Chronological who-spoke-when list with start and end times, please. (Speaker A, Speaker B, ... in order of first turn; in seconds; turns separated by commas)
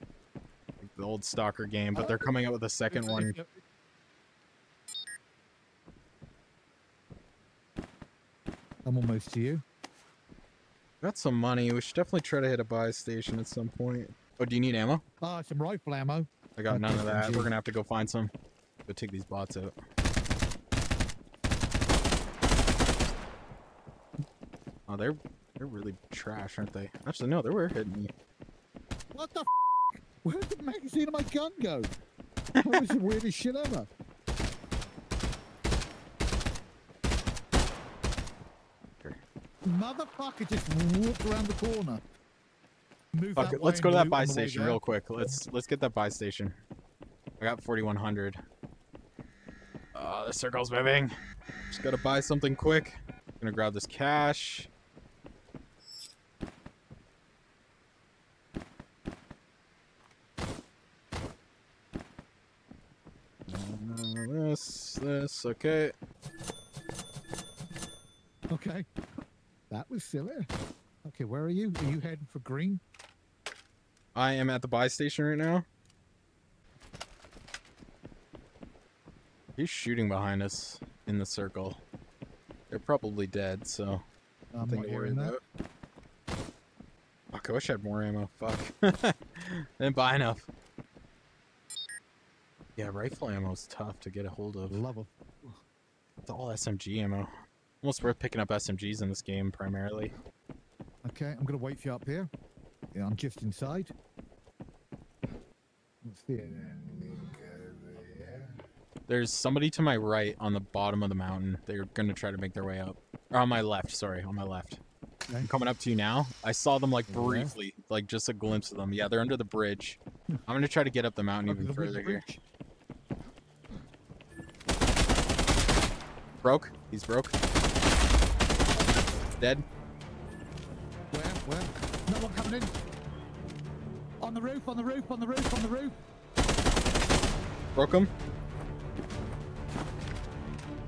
Speaker A: 0.8-3.3, Speaker B: 1.9-2.2, Speaker B: 2.9-3.6, Speaker B: 8.8-9.6, Speaker A: 11.0-15.0, Speaker B: 15.2-17.5, Speaker A: 16.6-18.3, Speaker A: 18.9-19.7, Speaker A: 24.9-28.1, Speaker B: 29.1-29.5, Speaker B: 30.0-31.9, Speaker A: 32.6-32.8, Speaker B: 32.6-33.9, Speaker B: 39.7-42.0, Speaker B: 43.1-44.8, Speaker A: 43.4-46.6, Speaker A: 47.4-48.4, Speaker A: 49.9-51.1, Speaker A: 51.7-54.7, Speaker A: 63.5-65.9, Speaker B: 68.5-68.8, Speaker B: 69.7-70.5, Speaker B: 71.0-72.8, Speaker A: 74.1-75.6, Speaker A: 79.6-81.8, Speaker A: 82.7-84.0, Speaker B: 84.5-85.3, Speaker A: 84.6-85.4, Speaker A: 87.3-90.5, Speaker A: 92.8-94.8, Speaker B: 94.7-95.6, Speaker A: 96.3-97.3, Speaker A: 97.8-100.1, Speaker B: 101.0-102.3, Speaker B: 102.9-103.9, Speaker B: 106.0-107.2, Speaker B: 107.9-108.5, Speaker A: 109.1-114.8, Speaker A: 115.4-122.2, Speaker B: 117.1-117.5, Speaker B: 121.5-122.4, Speaker A: 126.4-127.3, Speaker B: 131.1-132.7, Speaker B: 134.2-136.0, Speaker A: 137.8-138.1